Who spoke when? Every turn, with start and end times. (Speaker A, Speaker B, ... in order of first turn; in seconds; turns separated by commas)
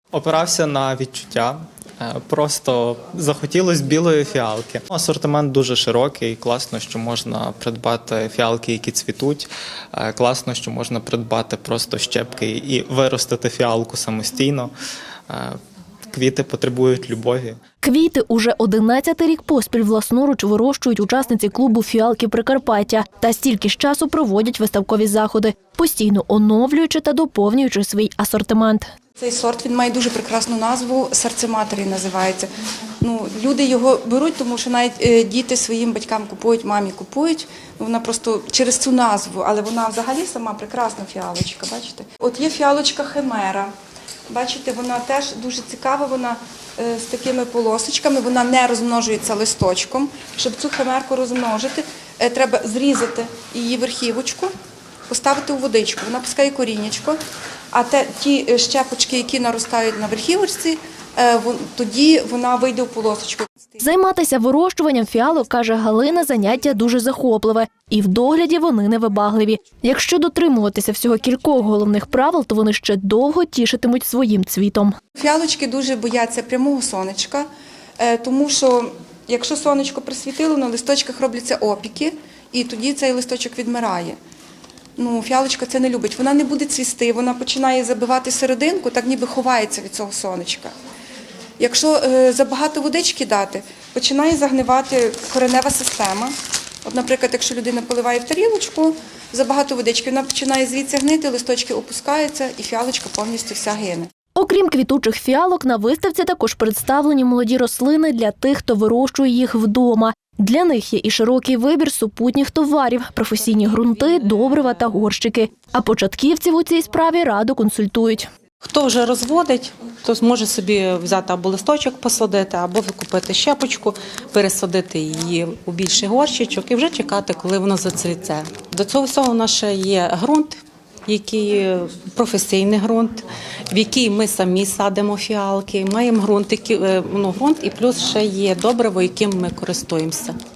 Speaker A: 0.1-14.7, Speaker A: 15.3-15.6, Speaker A: 16.1-17.6, Speaker B: 17.8-28.9, Speaker C: 29.2-32.5, Speaker C: 33.0-43.7, Speaker C: 44.3-54.5, Speaker C: 55.1-57.2, Speaker C: 57.7-63.8, Speaker B: 63.8-75.0, Speaker C: 75.2-77.5, Speaker C: 78.0-84.2, Speaker C: 85.0-90.7, Speaker C: 91.6-104.1, Speaker B: 104.4-118.3, Speaker D: 118.6-140.4